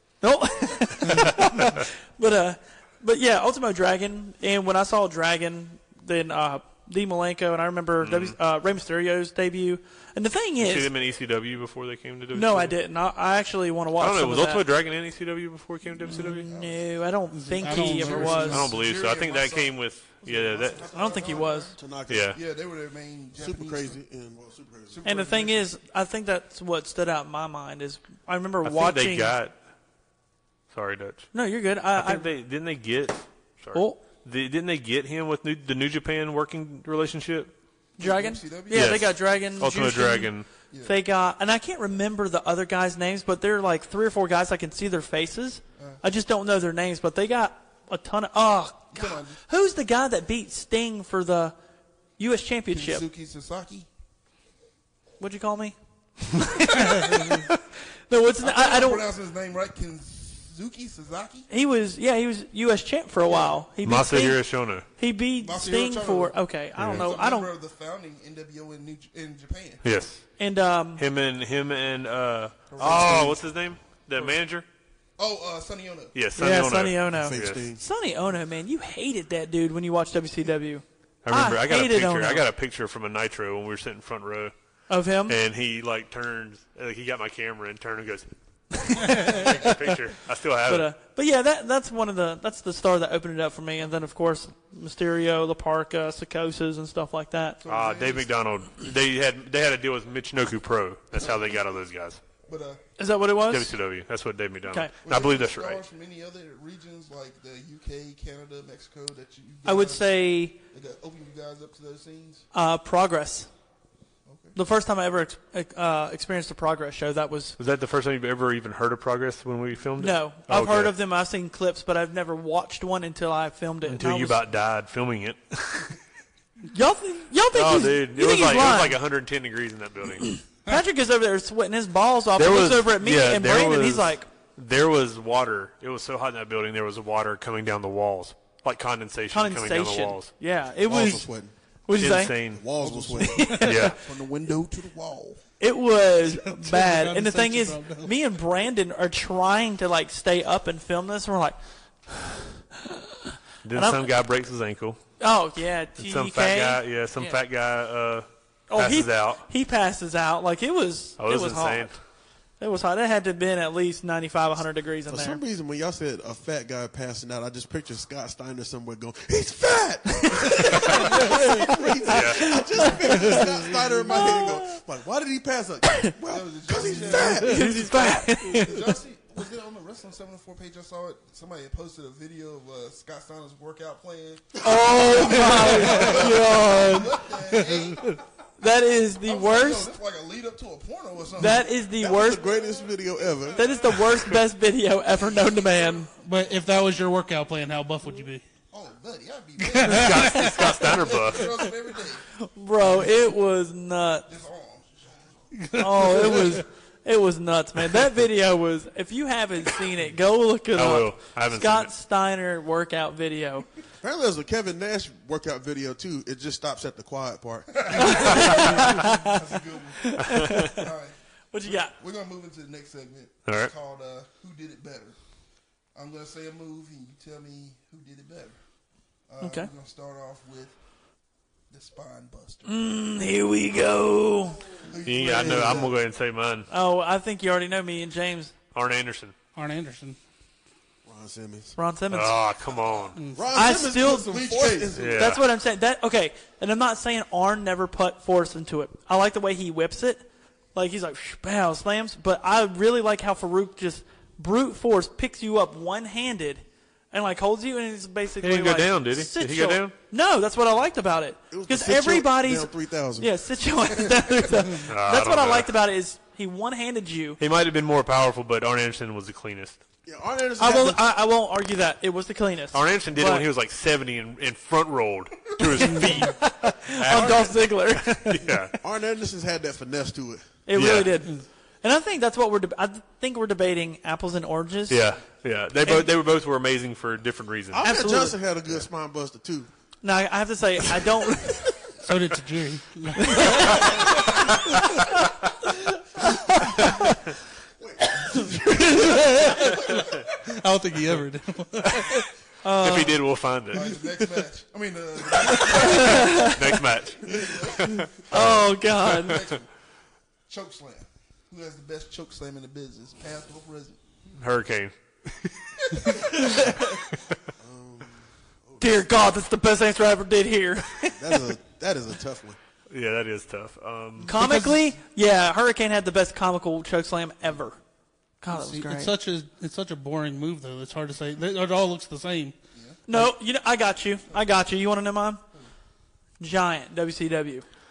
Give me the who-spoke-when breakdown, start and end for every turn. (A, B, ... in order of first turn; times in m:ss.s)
0:00.2-0:10.9 A
0:08.0-0:08.4 B
0:10.6-0:12.8 B
0:12.3-0:14.6 A
0:14.0-0:16.4 B
0:16.0-0:18.6 A
0:16.4-0:16.8 C
0:17.3-0:18.7 D
0:17.6-0:21.8 C
0:18.5-0:20.8 B
0:20.9-0:21.7 A
0:21.1-0:22.4 E
0:22.1-0:22.4 B
0:22.3-0:24.0 C
0:23.4-0:25.1 E
0:24.9-0:25.7 C
0:25.0-0:29.3 A
0:28.6-0:29.6 B
0:30.7-0:31.3 B
0:31.3-0:32.2 A
0:31.9-0:37.5 B
0:33.7-0:34.0 A
0:38.0-0:39.1 C
0:38.0-0:51.5 A
0:38.7-0:40.5 B
0:48.9-0:49.4 C
0:52.2-0:53.0 A
0:52.7-0:53.9 C
0:55.2-0:55.8 A
0:56.3-0:57.6 A
0:58.1-0:59.0 A
0:58.4-1:01.5 C
1:01.5-1:04.4 A
1:03.2-1:03.6 C
1:03.8-1:04.8 B
1:05.0-1:07.5 A
1:05.4-1:09.8 C
1:06.8-1:07.1 B
1:09.8-1:10.2 B
1:10.4-1:11.0 A
1:11.0-1:14.6 B
1:12.7-1:13.4 C
1:15.2-1:16.1 C
1:16.1-1:17.6 B
1:16.4-1:22.4 A
1:17.1-1:17.8 E
1:21.2-1:24.5 B
1:24.9-1:25.4 A
1:25.3-1:30.9 B
1:29.0-1:29.7 A
1:29.1-1:29.4 D
1:30.7-1:37.6 A
1:37.6-1:38.3 C
1:37.7-1:42.2 B
1:41.2-1:41.6 C
1:42.4-1:42.8 C
1:43.0-1:43.7 A
1:43.5-1:45.8 B
1:45.0-1:50.1 C
1:49.6-1:50.6 A
1:50.7-1:52.4 C
1:52.5-1:53.5 A
1:54.2-1:54.6 C
1:54.5-1:57.6 A
1:57.6-2:00.9 B
2:00.0-2:04.4 A
2:03.8-2:06.0 B
2:06.7-2:09.0 A
2:07.5-2:10.4 B
2:10.3-2:14.3 A
2:12.4-2:20.3 B
2:19.3-2:21.3 A
2:20.8-2:21.5 E
2:21.9-2:22.4 A
2:22.0-2:22.7 B
2:22.5-2:23.6 E
2:22.8-2:25.4 C
2:23.3-2:23.9 A
2:23.4-2:23.8 D
2:23.6-2:24.0 B
2:25.6-2:34.1 A
2:26.2-2:28.1 D
2:33.6-2:35.0 B
2:35.2-2:37.4 A
2:36.0-2:39.4 B
2:38.7-2:41.9 A
2:41.2-2:42.0 B
2:42.6-2:45.4 A
2:45.1-2:58.2 E
2:50.3-2:54.8 A
2:50.8-2:51.2 C
2:52.1-2:52.4 B
2:56.3-2:57.7 C
2:57.2-2:58.8 A
2:57.4-2:58.6 D
2:58.4-3:08.2 C
3:04.6-3:05.5 E
3:04.6-3:07.2 A
3:05.5-3:05.9 D
3:07.5-3:08.2 D
3:08.6-3:09.9 A
3:09.2-3:11.7 C
3:11.4-3:12.4 A
3:11.8-3:14.2 E
3:13.5-3:16.1 A
3:16.2-3:18.4 D
3:18.7-3:22.3 C
3:19.6-3:20.5 D
3:19.8-3:21.5 B
3:20.3-3:20.8 A
3:22.4-3:24.3 A
3:22.8-3:23.1 C
3:24.3-3:25.5 C
3:25.5-3:26.6 D
3:25.8-3:33.6 A
3:26.0-3:26.5 C
3:30.7-3:31.9 B
3:34.0-3:38.8 E
3:37.8-3:45.2 C
3:38.0-3:39.4 A
3:40.0-3:40.9 A
3:40.2-3:40.7 B
3:41.5-3:41.9 A
3:43.4-3:43.7 B
3:45.9-3:48.6 C
3:49.3-3:50.8 C
3:49.4-3:49.7 A
3:51.7-3:52.7 C
3:52.6-3:54.6 A
3:54.8-3:56.0 C
3:55.0-3:56.7 B
3:55.2-3:55.9 E
3:56.7-3:58.5 A
3:58.7-3:59.3 B
3:59.6-4:00.2 D
4:01.0-4:01.8 E
4:01.8-4:02.4 A
4:02.1-4:03.2 B
4:03.2-4:03.5 D
4:03.3-4:05.4 E
4:03.5-4:04.4 A
4:03.9-4:05.0 C
4:04.9-4:05.4 B
4:05.2-4:27.4 A
4:18.4-4:19.9 B
4:21.5-4:23.3 E
4:24.9-4:25.7 B
4:27.4-4:29.8 B
4:30.0-4:31.0 E
4:30.6-4:33.5 A
4:32.7-4:38.7 B
4:35.9-4:38.5 A
4:38.8-4:40.5 E
4:40.7-4:45.0 A
4:40.7-4:41.2 B
4:44.9-4:47.8 B
4:45.8-4:46.1 A
4:47.7-4:49.7 E
4:47.8-4:48.4 A
4:50.0-4:51.7 A
4:52.0-4:53.8 D
4:53.2-4:54.1 A
4:57.8-4:59.7 E
4:58.8-4:59.3 A
4:58.9-5:02.3 D
5:02.6-5:03.2 A
5:02.8-5:04.0 B
5:03.7-5:09.7 C
5:05.6-5:06.6 A
5:05.9-5:09.2 B
5:08.3-5:09.4 A
5:10.5-5:14.0 C
5:14.3-5:16.2 B
5:15.8-5:16.6 C
5:17.6-5:19.4 E
5:18.8-5:21.1 A
5:21.0-5:22.6 E
5:22.9-5:24.4 B
5:24.2-5:27.8 A
5:24.3-5:24.9 D
5:28.4-5:29.1 A
5:28.5-5:32.5 D
5:32.7-5:33.0 C
5:33.1-5:35.4 A
5:36.4-5:37.6 A